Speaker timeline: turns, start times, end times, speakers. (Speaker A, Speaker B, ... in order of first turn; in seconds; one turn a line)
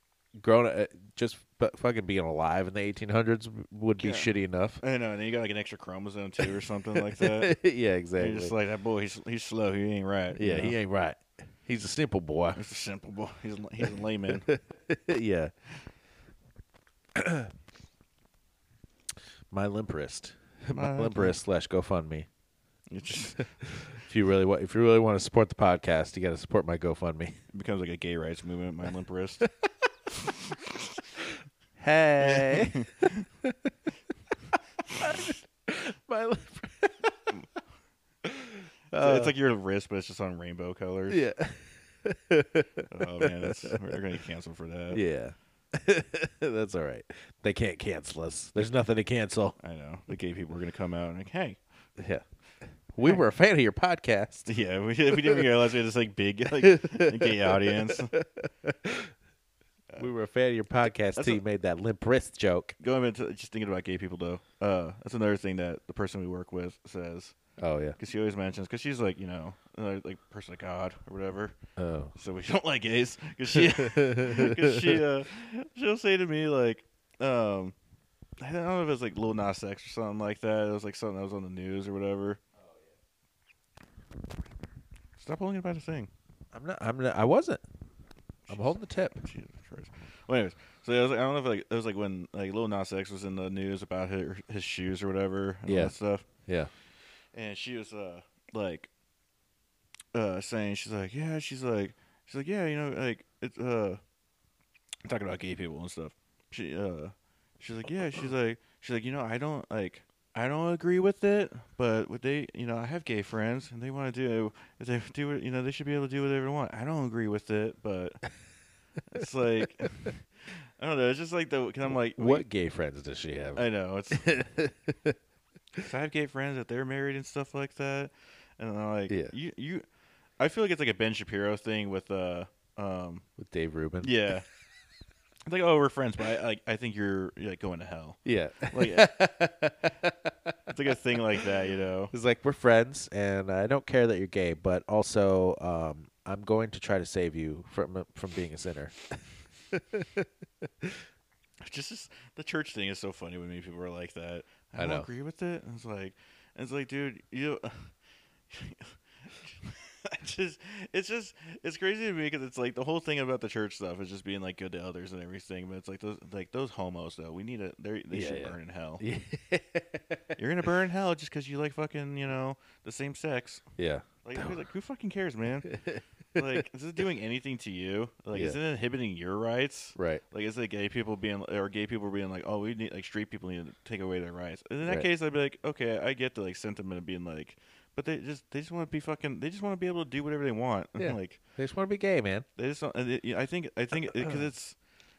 Speaker A: 0.3-4.8
Speaker B: 4.0-7.6
Speaker A: 7.1-8.5
Speaker B: 8.2-10.8
Speaker A: 10.3-12.6
Speaker B: 12.6-14.5
Speaker A: 14.3-15.5
Speaker A: 17.1-17.5
Speaker A: 19.5-22.3
Speaker B: 20.7-21.4
Speaker B: 22.9-23.5
Speaker A: 23.4-27.4
Speaker B: 27.5-29.4
Speaker B: 30.2-30.7
Speaker A: 31.8-33.5
Speaker B: 32.2-33.2
Speaker A: 34.9-37.5
Speaker A: 38.2-39.3
Speaker B: 38.9-41.2
Speaker A: 41.1-43.8
Speaker B: 42.9-45.0
Speaker A: 44.9-49.5
Speaker B: 49.6-51.6
Speaker A: 52.0-52.2
Speaker A: 52.9-54.5
Speaker B: 54.5-58.1
Speaker A: 56.6-59.1
Speaker A: 60.0-62.7
Speaker B: 62.8-67.3
Speaker A: 67.6-68.0
Speaker B: 68.0-71.6
Speaker A: 71.8-72.1
Speaker B: 72.1-77.8
Speaker A: 73.7-75.0
Speaker B: 78.4-82.4
Speaker A: 82.6-82.9
Speaker B: 85.2-86.1
Speaker A: 86.5-87.6
Speaker B: 88.5-96.3
Speaker A: 88.5-89.2
Speaker A: 95.7-95.9
Speaker A: 96.5-96.7
Speaker B: 97.3-98.9
Speaker B: 100.1-104.0
Speaker B: 105.0-118.2
Speaker B: 119.1-122.5
Speaker A: 122.1-125.2
Speaker B: 123.5-124.3
Speaker B: 125.8-129.8
Speaker A: 129.1-129.3
Speaker B: 130.4-133.2
Speaker A: 133.4-134.3
Speaker B: 134.0-134.4
Speaker B: 135.4-139.2
Speaker A: 138.2-140.7
Speaker B: 140.7-142.1
Speaker A: 142.1-151.0
Speaker B: 151.6-157.9
Speaker A: 154.8-155.1
Speaker B: 158.5-169.0
Speaker A: 168.1-170.3
Speaker B: 170.4-173.7
Speaker A: 173.8-174.6
Speaker B: 174.2-175.8
Speaker A: 175.7-176.6
Speaker B: 176.3-191.4
Speaker A: 179.9-180.2
Speaker A: 191.0-192.4
Speaker B: 192.6-194.8